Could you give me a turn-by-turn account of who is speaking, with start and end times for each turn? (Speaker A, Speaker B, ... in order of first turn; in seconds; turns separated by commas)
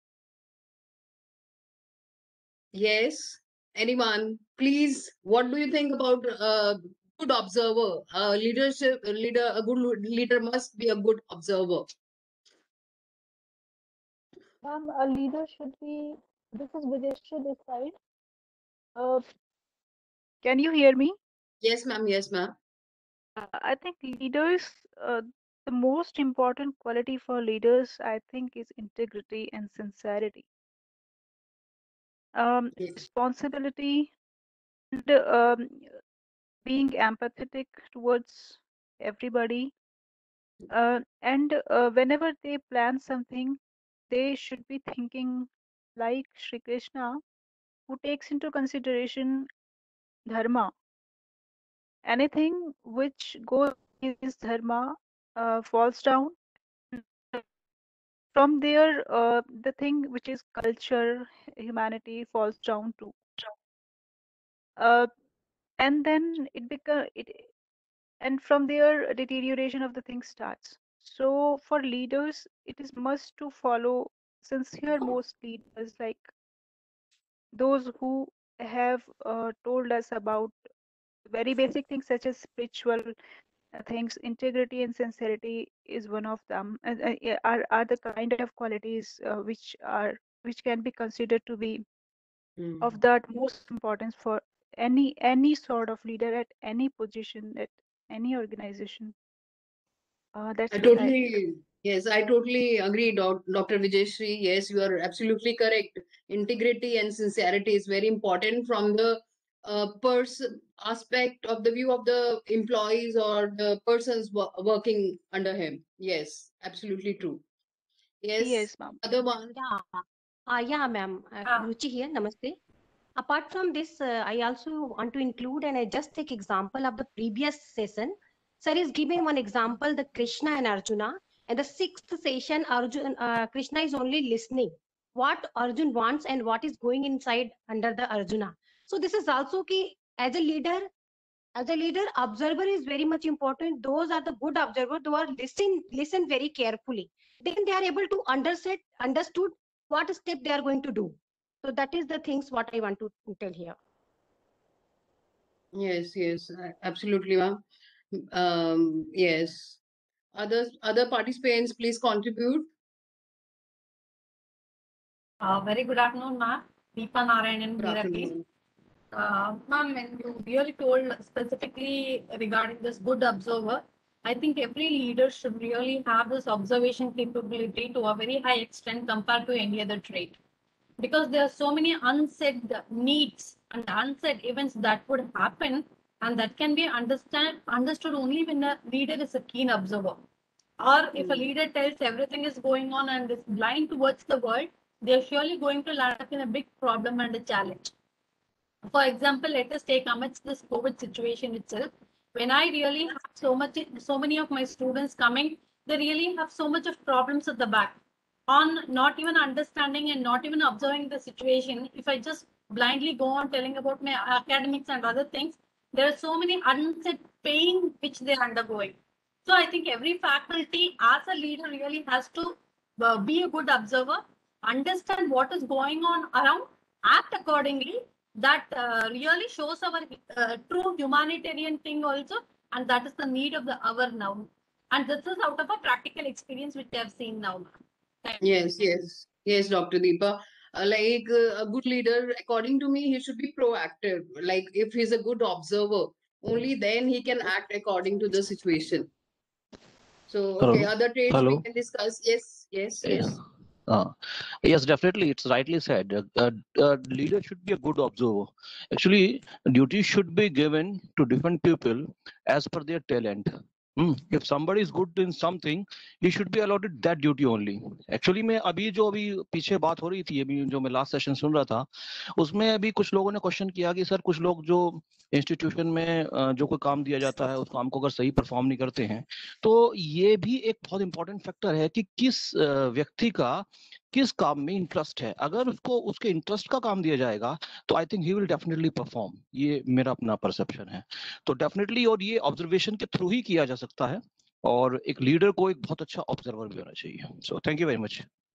Speaker A: 2.7-11.9, Speaker B: 14.6-17.9, Speaker B: 19.0-19.2, Speaker B: 20.4-21.2, Speaker A: 21.6-22.6, Speaker B: 23.4-30.4, Speaker B: 32.4-34.1, Speaker B: 34.9-35.9, Speaker B: 36.6-39.7, Speaker B: 40.7-43.6, Speaker B: 44.1-47.2, Speaker B: 47.9-49.5, Speaker B: 50.3-50.7, Speaker B: 52.0-56.4, Speaker B: 57.0-57.4, Speaker B: 58.4-63.5, Speaker B: 64.8-65.1, Speaker B: 65.8-67.4, Speaker B: 68.2-76.3, Speaker B: 77.5-80.5, Speaker B: 81.3-83.2, Speaker B: 83.7-91.8, Speaker A: 92.6-92.9, Speaker B: 92.8-99.1, Speaker B: 100.4-101.2, Speaker A: 100.7-117.4, Speaker A: 118.2-119.5, Speaker B: 118.4-119.0, Speaker C: 119.5-122.6, Speaker C: 123.2-140.9, Speaker C: 141.6-153.8, Speaker A: 155.7-157.6, Speaker A: 158.1-159.8, Speaker A: 160.3-162.7, Speaker D: 165.4-168.3, Speaker A: 167.8-168.4, Speaker D: 169.1-180.4, Speaker D: 181.0-190.2, Speaker D: 190.8-197.9, Speaker A: 191.2-191.4, Speaker D: 198.9-238.4, Speaker A: 238.4-249.1, Speaker A: 250.3-253.3, Speaker E: 250.6-251.6, Speaker E: 253.1-298.3